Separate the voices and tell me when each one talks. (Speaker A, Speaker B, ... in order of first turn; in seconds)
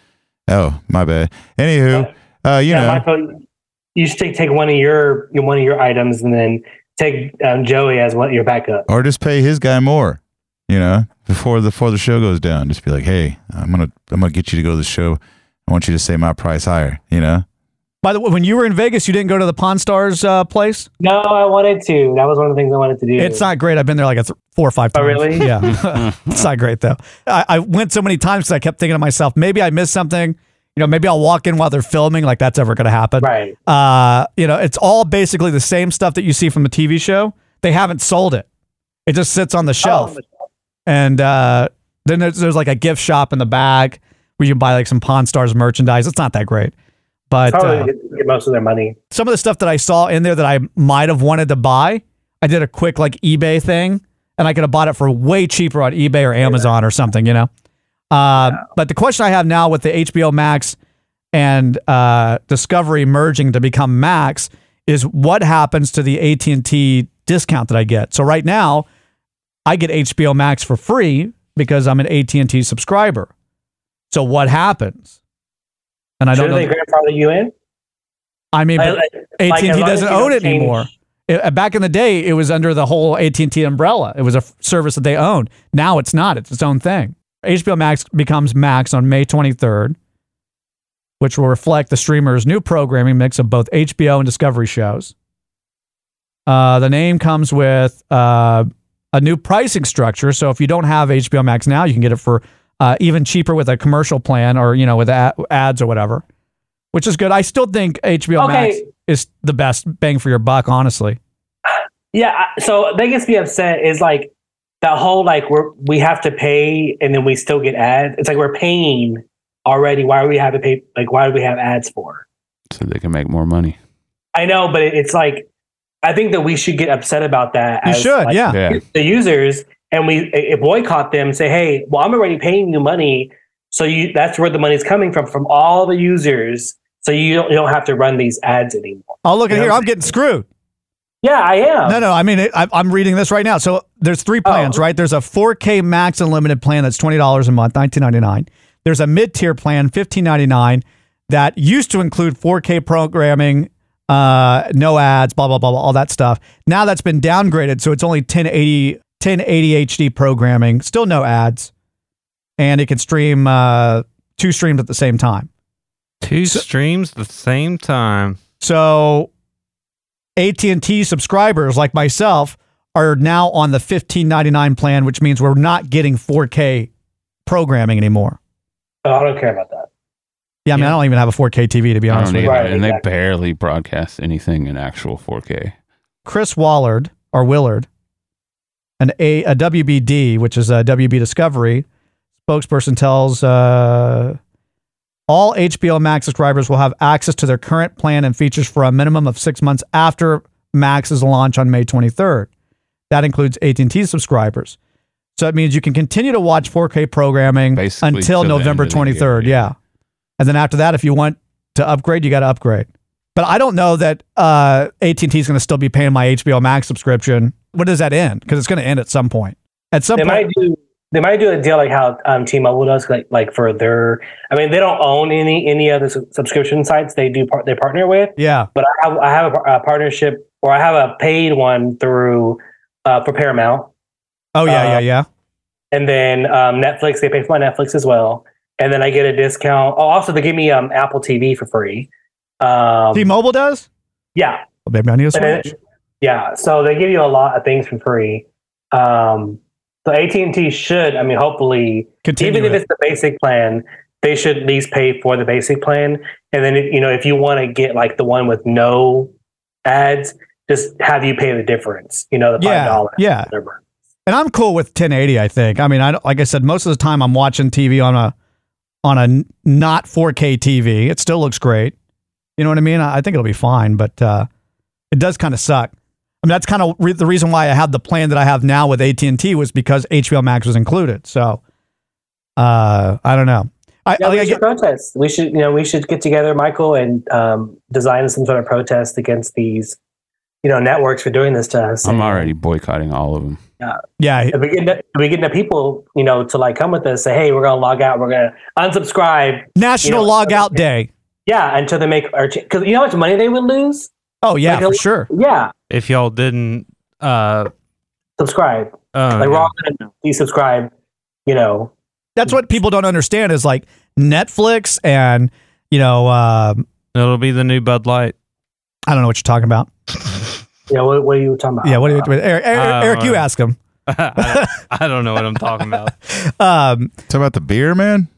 Speaker A: 0.5-3.0, 8.9-17.4, 327.3-328.3
Speaker B: 2.7-3.4, 4.0-8.9, 21.0-23.5, 24.9-25.4, 33.2-33.5, 39.8-40.2, 47.5-49.0, 76.3-77.5, 78.8-80.9, 108.4-108.8, 112.1-114.3, 114.8-122.2, 124.3-125.5, 126.0-139.9, 141.2-142.0, 144.4-144.8, 179.0-179.9, 182.4-183.0, 220.2-233.9, 234.6-235.0, 235.9-242.1, 242.6-243.3, 244.3-244.6, 245.3-259.3, 259.8-263.8, 284.2-290.0, 290.6-292.5, 294.5-300.8, 301.4-304.1, 304.6-305.7, 308.4-310.9, 311.4-311.9, 320.9-322.3
Speaker C: 18.0-20.9, 23.2-38.5, 39.1-40.1, 40.9-46.7, 47.3-47.9, 49.1-57.5, 58.1-60.8, 61.3-68.8, 69.7-73.3, 74.1-75.1, 76.2-76.7, 78.5-90.0, 91.2-95.1, 96.5-106.2, 106.9-111.2, 127.8-128.6, 139.2-140.4, 141.8-161.7, 162.6-165.5, 168.6-169.3, 170.4-176.9, 177.4-178.4, 180.7-182.7, 186.2-187.9, 189.0-191.8, 192.5-194.4, 195.3-202.5, 203.1-204.8, 205.3-209.7, 210.4-220.4, 228.4-228.7, 234.5-235.3, 243.1-243.9, 244.8-245.7, 252.2-252.8, 262.6-263.5, 264.2-268.3, 269.0-271.9, 272.6-274.5, 275.1-275.9, 276.4-281.6, 282.6-284.6, 294.2-294.5, 299.8-301.1, 304.4-305.3, 312.4-316.8, 319.1-319.9, 321.8-323.8, 324.4-324.7, 326.3-327.1
Speaker D: 25.9-26.2, 122.7-123.8, 128.5-128.8, 182.1-185.7, 207.7-209.7, 292.0-293.6
Speaker E: 166.2-168.4, 305.9-307.7, 309.1-309.7, 317.1-318.3, 322.7-323.4, 324.1-326.1